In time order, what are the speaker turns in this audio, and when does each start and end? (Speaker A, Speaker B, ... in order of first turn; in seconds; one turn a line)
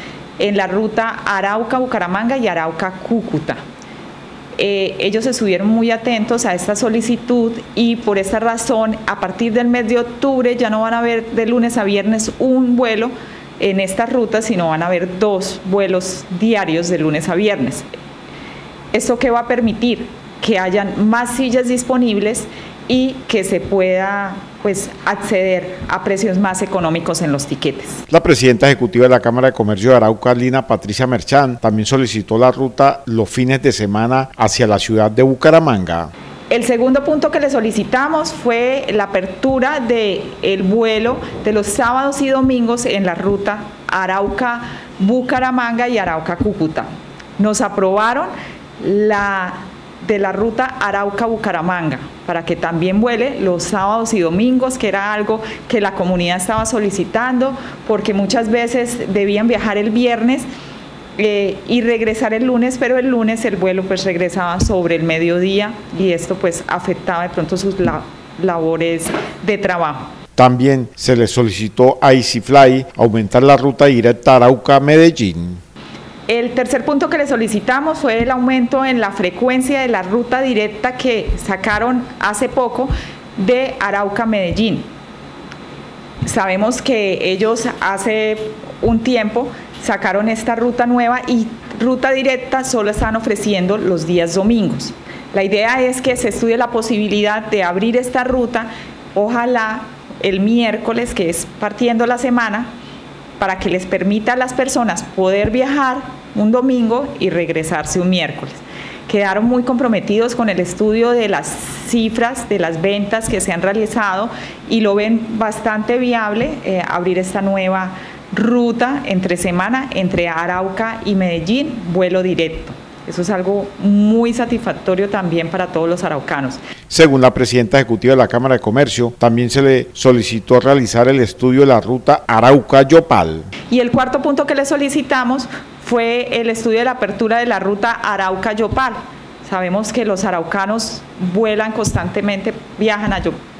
Speaker A: 0.4-3.6
Speaker A: 4.6-17.9
Speaker A: 18.9-28.0
Speaker B: 28.1-36.1
Speaker A: 36.5-60.5
Speaker A: 61.2-70.1
Speaker B: 70.3-75.6
Speaker A: 76.3-84.9
Speaker A: 86.2-102.7
Speaker A: 103.4-126.6
Speaker B: 126.9-133.5
Speaker A: 133.7-143.4